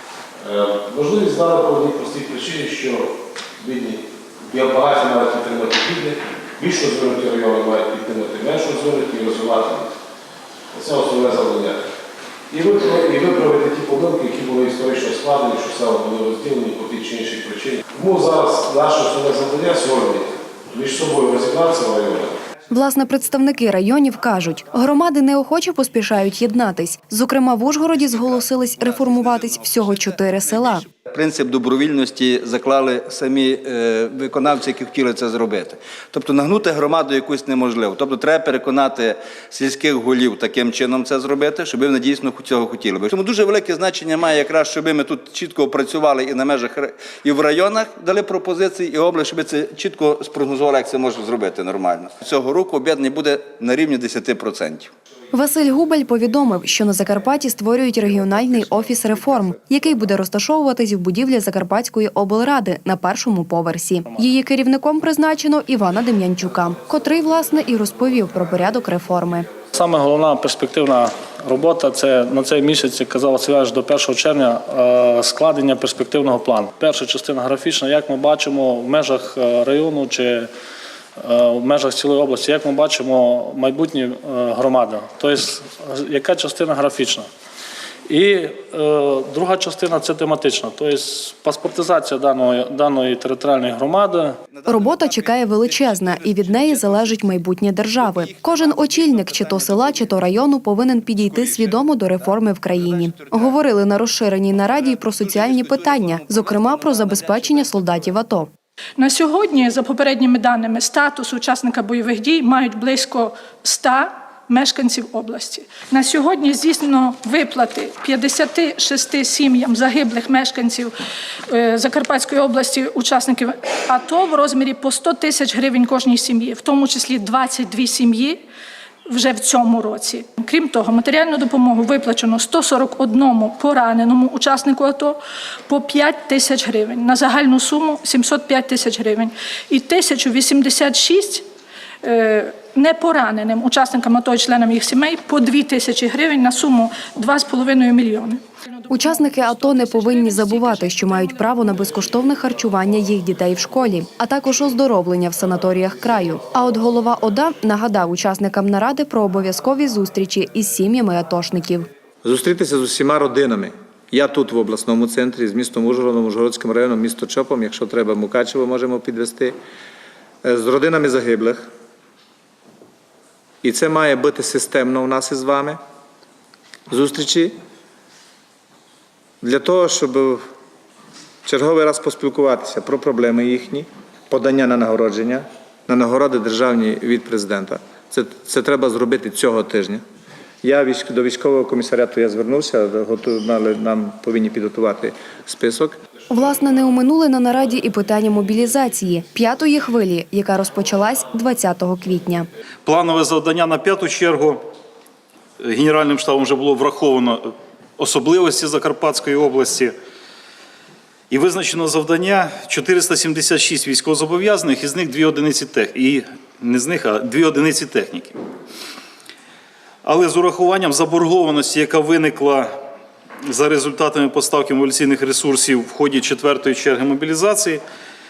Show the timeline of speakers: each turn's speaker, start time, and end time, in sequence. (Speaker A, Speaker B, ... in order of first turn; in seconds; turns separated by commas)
Speaker A: 0.4-9.9, Speaker A: 10.7-11.8, Speaker A: 12.5-22.4, Speaker B: 22.7-30.9, Speaker C: 27.9-54.9, Speaker B: 55.3-69.5, Speaker D: 64.1-64.3, Speaker D: 69.7-80.5, Speaker D: 81.2-87.3, Speaker D: 88.1-94.4, Speaker C: 94.5-97.3, Speaker B: 94.7-108.5, Speaker C: 98.0-100.2, Speaker C: 101.2-103.7, Speaker C: 104.5-108.1, Speaker E: 109.0-120.9, Speaker E: 121.5-128.4, Speaker E: 129.1-141.4, Speaker E: 142.0-151.6, Speaker B: 148.9-161.9, Speaker F: 162.2-169.6, Speaker F: 170.4-171.7, Speaker F: 173.6-175.8, Speaker F: 176.9-177.5, Speaker F: 179.4-180.4, Speaker F: 181.4-190.0, Speaker F: 190.6-195.9, Speaker B: 196.3-202.5, Speaker G: 202.8-204.6, Speaker G: 205.6-209.9, Speaker G: 211.3-218.3, Speaker G: 220.0-222.7, Speaker G: 223.5-227.8